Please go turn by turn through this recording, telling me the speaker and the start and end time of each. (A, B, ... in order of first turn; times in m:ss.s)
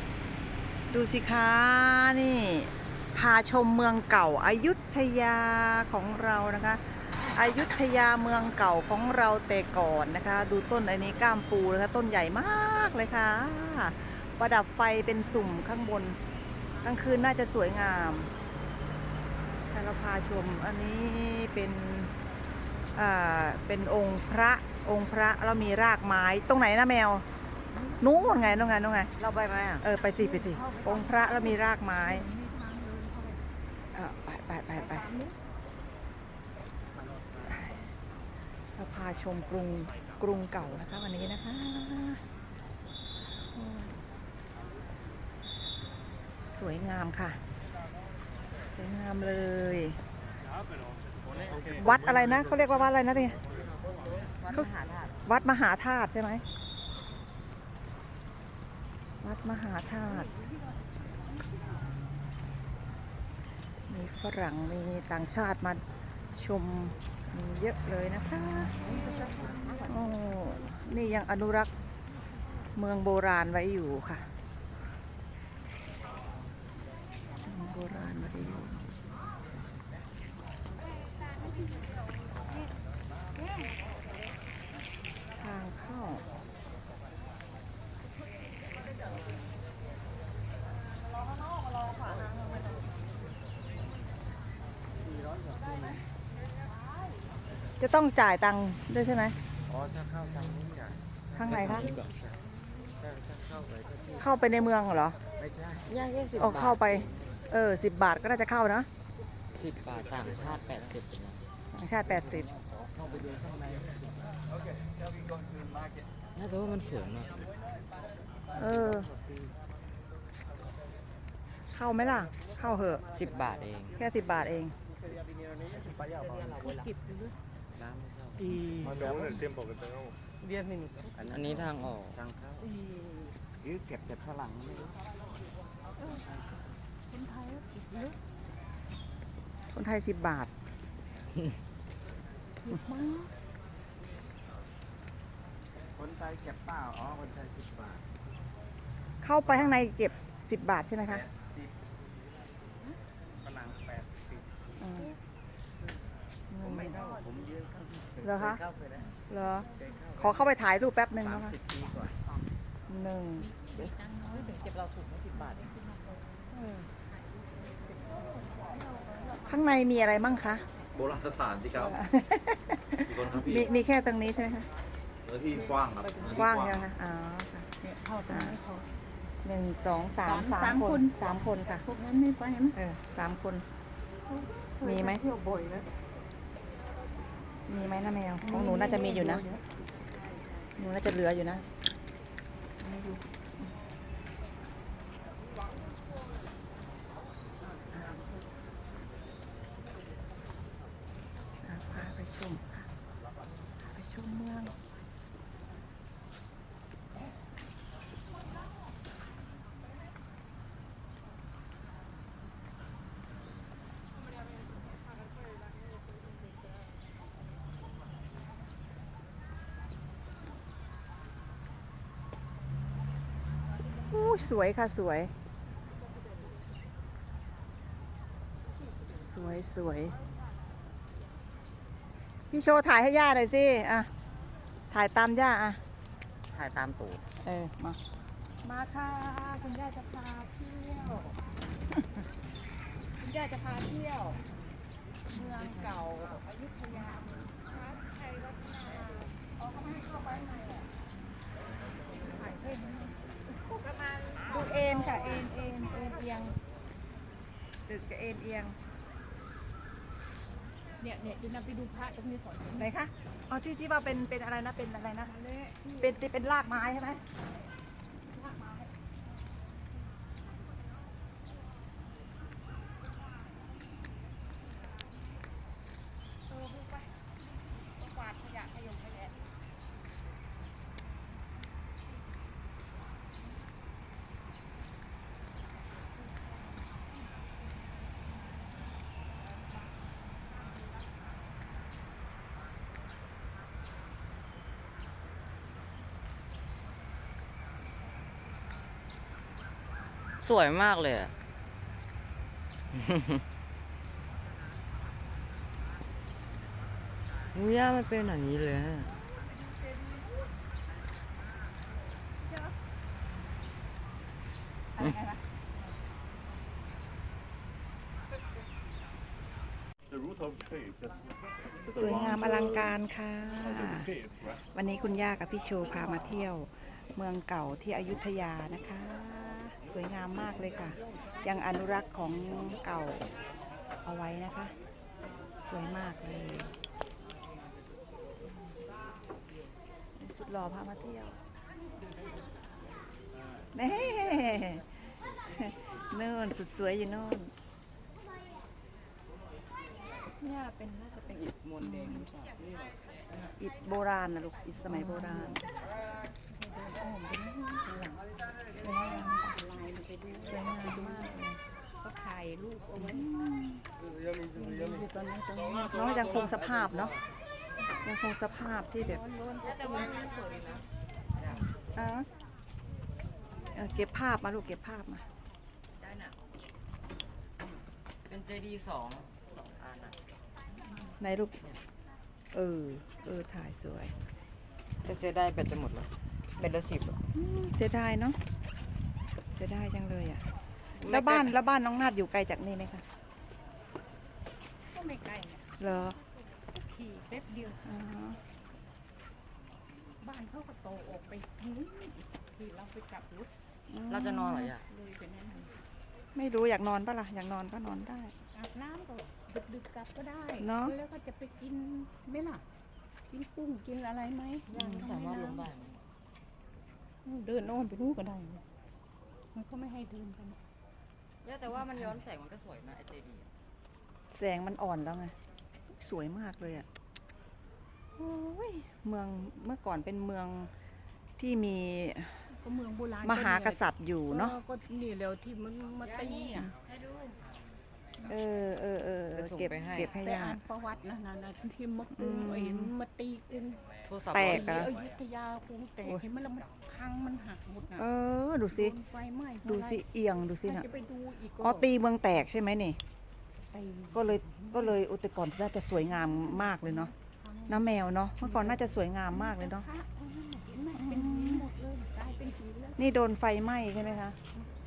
0:00.9-0:16.2 A
0:16.8-0:18.3 A
0:19.7-0:22.1 A
0:23.0-0:27.2 A
0:27.7-0:28.7 B
0:28.0-0:29.1 A
0:29.2-0:29.9 C
0:29.8-0:32.3 A
0:30.2-0:33.4 B
0:33.9-0:35.1 A
0:34.8-0:35.4 B
0:37.5-0:37.8 A
0:38.8-0:42.2 A
0:43.5-0:44.0 A
0:46.5-0:47.4 A
0:48.7-0:50.0 A
0:51.7-0:53.4 A
0:54.2-0:55.2 C
0:55.3-0:56.4 A
0:59.2-1:00.3 A
1:01.4-1:01.7 B
1:03.9-1:05.8 A
1:06.3-1:11.7 A
1:09.0-1:09.9 C
1:09.3-1:09.9 B
1:12.8-1:14.3 A
1:17.5-1:18.8 A
1:25.4-1:26.2 A
1:35.5-1:35.9 D
1:37.8-1:39.4 A
1:39.7-1:42.0 D
1:41.4-1:42.0 A
1:41.5-1:42.1 C
1:43.0-1:44.2 D
1:44.2-1:45.2 A
1:45.4-1:45.8 D
1:45.8-1:47.1 C
1:46.4-1:48.9 A
1:49.6-1:51.4 C
1:51.7-1:52.5 A
1:52.7-1:54.2 D
1:56.4-1:57.5 C
1:58.6-1:59.1 A
1:59.0-1:59.3 D
2:01.7-2:03.0 A
2:03.1-2:04.0 C
2:04.0-2:04.8 A
2:05.9-2:06.5 D
2:06.6-2:07.4 B
2:07.8-2:09.4 D
2:11.1-2:12.6 D
2:11.3-2:12.2 C
2:13.6-2:15.0 D
2:16.0-2:16.3 B
2:17.1-2:18.2 B
2:19.7-2:20.5 A
2:22.6-2:23.3 B
2:26.0-2:28.0 D
2:29.2-2:31.2 A
2:31.4-2:31.7 D
2:33.4-2:34.2 D
2:34.8-2:35.1 A
2:36.5-2:37.1 A
2:36.6-2:39.0 D
2:38.2-2:38.6 A
2:39.3-2:41.6 A
2:39.8-2:40.4 D
2:41.2-2:42.2 D
2:42.9-2:43.5 A
2:43.4-2:44.6 B
2:44.4-2:45.4 C
2:45.3-2:46.5 B
2:47.1-2:49.5 B
2:49.4-2:50.6 A
2:51.0-2:52.0 E
2:51.7-2:54.7 A
2:53.1-2:53.7 E
2:55.3-2:56.7 E
2:55.6-2:56.3 B
2:56.2-2:57.7 A
2:57.8-2:58.9 B
2:58.3-2:58.6 A
2:59.4-3:01.9 A
3:00.2-3:01.2 B
3:01.8-3:02.8 B
3:02.8-3:03.6 A
3:04.3-3:05.8 B
3:04.8-3:05.3 A
3:07.7-3:09.5 A
3:08.4-3:09.6 B
3:10.8-3:11.7 A
3:12.8-3:13.7 A
3:21.6-3:22.9 A
3:23.8-3:24.7 A
3:44.1-3:45.3 A
3:49.2-3:50.2 A
3:52.5-3:54.1 A
3:54.9-3:55.8 A
3:56.5-3:57.2 C
3:57.4-3:58.0 A
3:58.6-4:01.4 A
4:03.2-4:04.4 A
4:05.3-4:10.9 A
4:12.1-4:13.2 B
4:13.6-4:16.6 A
4:17.9-4:18.8 A
4:21.0-4:22.9 B
4:22.8-4:25.3 A
4:25.3-4:26.1 B
4:26.0-4:27.2 A
4:36.5-4:37.1 A
4:38.0-4:39.4 A
5:00.4-5:01.3 C
5:02.9-5:03.4 C
5:07.5-5:09.2 C
5:15.0-5:15.4 A
5:21.9-5:24.2 A
5:24.7-5:33.3 A
5:34.0-5:34.7 A
5:35.6-5:36.8 A
5:40.2-5:41.4 A
5:43.8-5:44.9 A
5:45.5-5:47.5 A
5:50.4-5:52.7 C
5:51.8-5:52.3 A
5:53.6-5:55.6 A
5:54.9-5:55.6 B
5:56.5-5:58.3 B
5:58.7-5:59.6 A
5:58.8-6:01.4 B
6:00.4-6:01.6 A
6:02.0-6:03.3 B
6:03.0-6:03.8 A
6:04.6-6:05.9 B
6:05.9-6:07.2 A
6:08.0-6:09.2 A
6:09.0-6:10.3 B
6:09.6-6:11.7 C
6:12.0-6:12.3 A
6:13.7-6:15.2 A
6:16.0-6:16.4 C
6:18.3-6:20.2 C
6:21.2-6:21.6 A
6:22.5-6:24.1 A
6:25.0-6:27.2 C
6:27.3-6:28.4 A
6:29.6-6:30.4 A
6:31.0-6:31.6 C
6:31.1-6:33.0 A
6:34.9-6:35.7 B
6:35.8-6:36.2 A
6:36.7-6:37.8 B
6:37.8-6:38.4 A
6:40.2-6:43.5 B
6:43.9-6:44.7 A
6:44.1-6:44.9 C
6:44.9-6:45.8 B
6:46.4-6:48.3 A
6:48.5-6:52.6 B
6:50.6-6:51.0 A
6:53.3-6:55.6 B
6:54.7-6:56.0 C
6:57.2-6:58.6 B
6:59.5-7:00.6 B
7:01.4-7:03.5 C
7:04.3-7:05.3 A
7:05.9-7:06.9 A
7:08.2-7:10.7 A
7:11.4-7:12.4 A
7:12.6-7:16.8 B
7:13.2-7:14.6 A
7:16.0-7:17.4 C
7:18.2-7:20.6 A
7:19.3-7:20.2 C
7:20.1-7:23.9 B
7:22.2-7:22.9 A
7:24.0-7:25.0 C
7:24.3-7:25.0 A
7:24.4-7:28.0 B
7:28.0-7:29.0 A
7:28.7-7:30.0 B
7:29.6-7:30.9 A
7:30.6-7:31.9 B
7:31.6-7:33.0 A
7:33.7-7:34.9 B
7:34.1-7:37.1 A
7:36.2-7:37.8 B
7:37.7-7:39.9 A
7:38.4-7:43.0 B
7:41.0-7:41.7 A
7:43.0-7:44.4 A